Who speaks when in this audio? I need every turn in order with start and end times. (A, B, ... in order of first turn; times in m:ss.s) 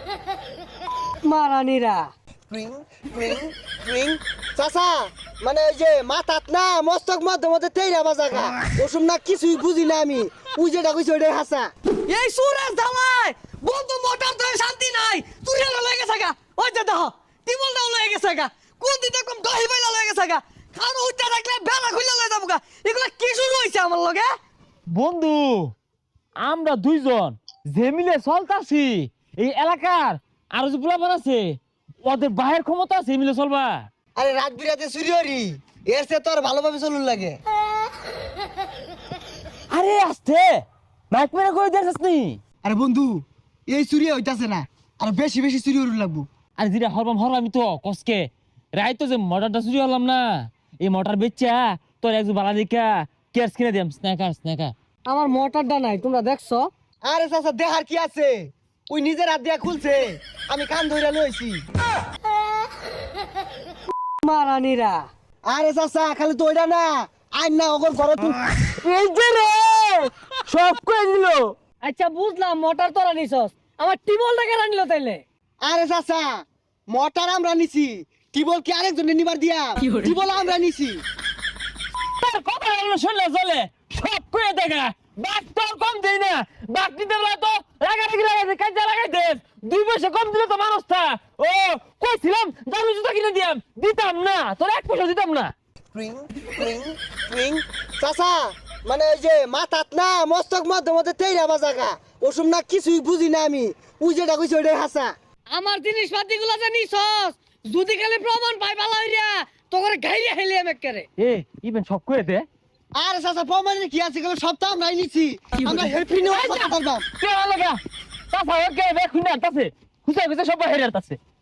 0:01.2-0:02.1 A
0:02.5-0:11.7 B
0:12.0-0:24.3 A
0:24.9-0:25.7 C
0:26.4-0:33.8 C
0:34.2-0:37.4 B
0:39.7-0:42.4 C
0:42.6-0:46.3 B
0:46.6-0:54.7 C
0:55.0-0:56.7 A
0:57.0-1:01.6 B
1:04.2-1:05.1 A
1:05.4-1:08.4 B
1:08.8-1:11.5 C
1:11.8-1:15.2 A
1:15.6-1:21.0 B
1:22.2-1:35.5 C
1:35.9-1:45.1 B
1:45.5-1:51.0 A
1:51.2-1:52.4 C
1:53.0-1:57.0 B
1:56.3-1:56.7 C
1:57.2-1:57.8 C
1:58.3-2:01.2 C